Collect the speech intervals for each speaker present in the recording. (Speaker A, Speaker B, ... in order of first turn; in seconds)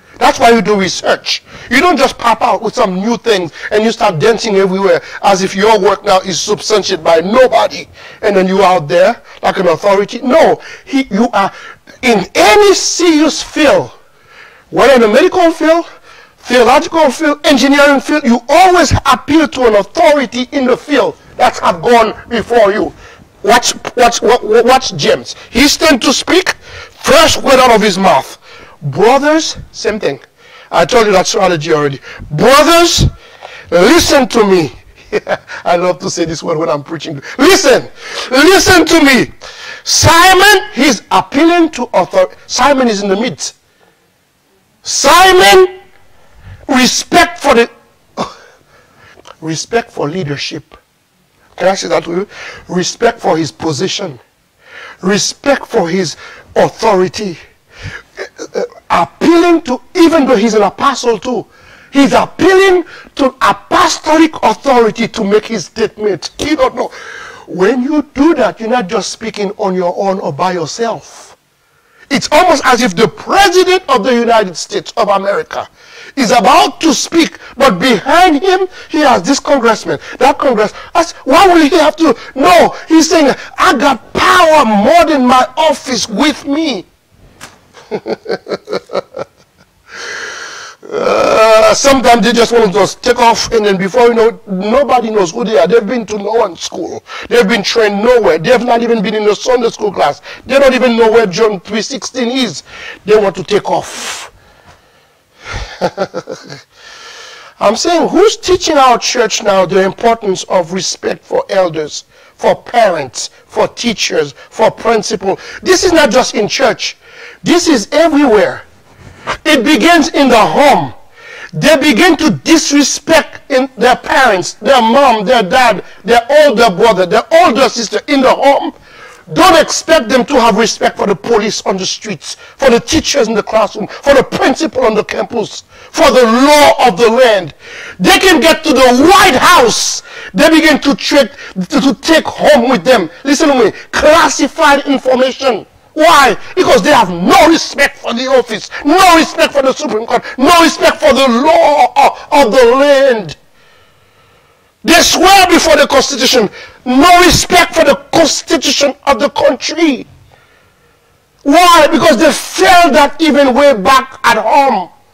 Speaker A: 0.2-13.9, 14.7-15.8, 16.4-33.1, 33.7-39.3, 39.8-43.5, 44.8-45.7, 46.7-48.3, 49.4-50.8, 51.6-54.2, 55.0-57.4, 58.2-66.9, 67.5-71.3, 72.1-86.9, 87.9-89.0, 90.9-104.3, 105.6-106.5, 107.6-118.7, 119.4-121.0, 121.5-128.7, 129.3-153.4, 154.8-160.1, 161.4-164.9